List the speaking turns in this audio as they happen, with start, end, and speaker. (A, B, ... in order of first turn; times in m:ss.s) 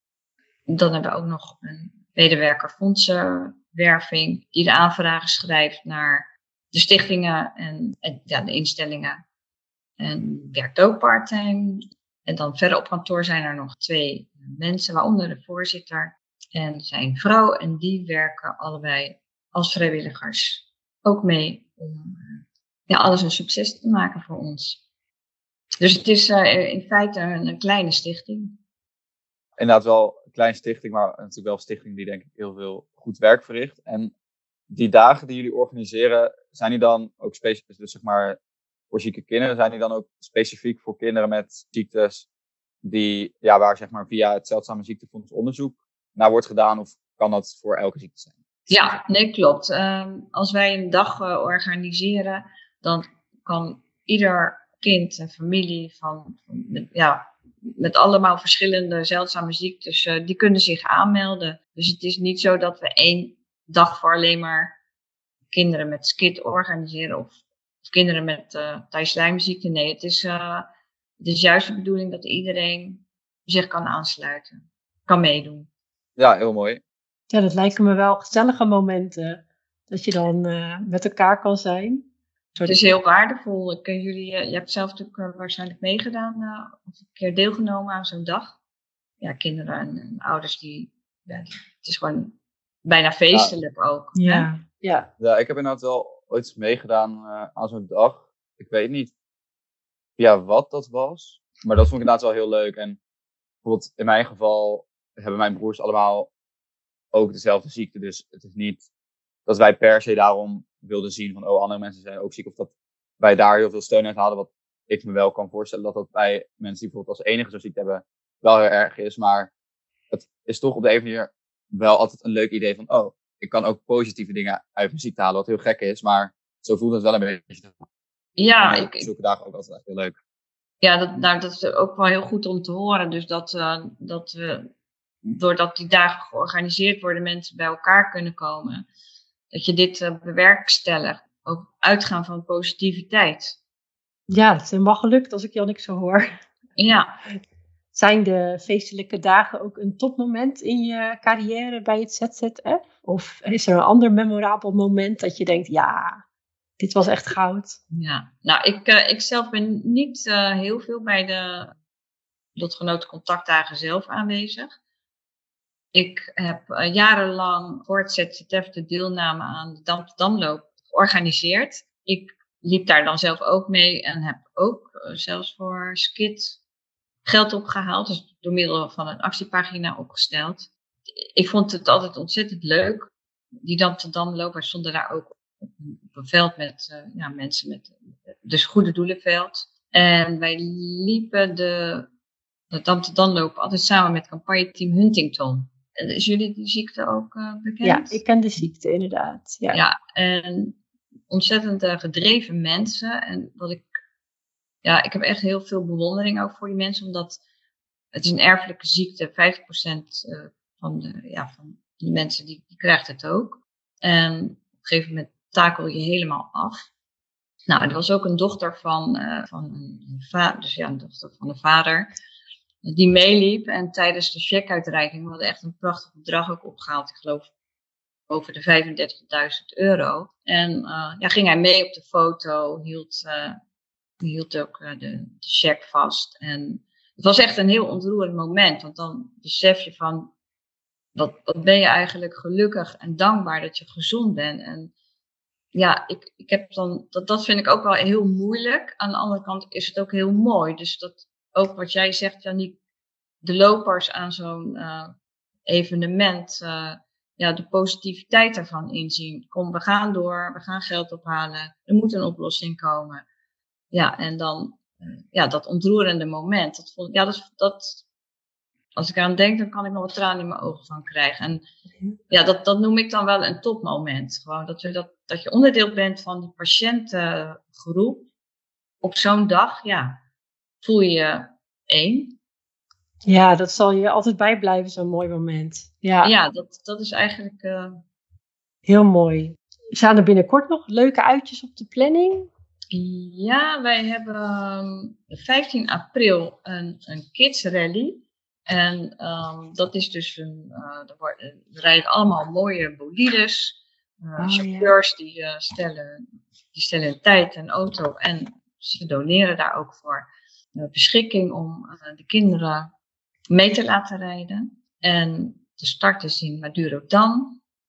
0:00.7-0:09.2 A
0:10.0-0:24.8 A
0:25.8-0:28.6 A
0:29.6-0:34.1 B
0:34.7-0:38.4 B
0:38.9-0:42.2 B
0:42.8-0:48.3 B
0:48.7-1:04.8 A
1:05.5-1:10.7 A
1:11.2-1:15.7 A
1:16.2-1:16.8 B
1:17.3-1:22.8 C
1:22.6-1:28.6 A
1:29.2-1:34.5 A
1:34.1-1:35.1 C
1:35.2-1:39.1 B
1:40.2-1:43.0 B
1:43.6-1:46.3 B
1:47.1-1:48.8 B
1:49.5-1:59.5 B
2:00.1-2:07.8 B
2:08.4-2:09.0 A
2:08.6-2:10.2 B
2:10.8-2:14.6 A
2:15.2-2:18.8 A
2:19.5-2:23.6 A
2:24.3-2:26.3 C
2:26.8-2:27.1 A
2:27.9-2:36.2 C
2:36.8-2:37.8 C
2:37.9-2:41.7 A
2:42.6-2:44.7 A
2:45.9-2:56.6 A
2:57.2-3:12.1 A
3:12.7-3:18.2 A
3:17.8-3:19.8 C
3:19.7-3:23.9 A
3:24.8-3:27.4 A
3:28.1-3:36.9 A
3:37.7-3:42.1 A
3:42.8-3:47.5 A
3:48.3-3:53.6 A
3:54.2-4:00.3 A
4:01.1-4:04.9 A
4:05.7-4:12.8 A
4:13.4-4:15.1 A
4:15.7-4:23.2 A
4:23.9-4:28.0 A
4:28.9-4:31.6 A
4:32.3-4:38.3 A
4:39.0-4:40.2 A
4:40.8-4:42.4 A
4:43.2-4:46.3 C
4:46.2-4:48.0 A
4:48.8-4:52.5 C
4:52.9-5:12.9 A
5:04.4-5:04.9 C
5:13.5-5:17.6 A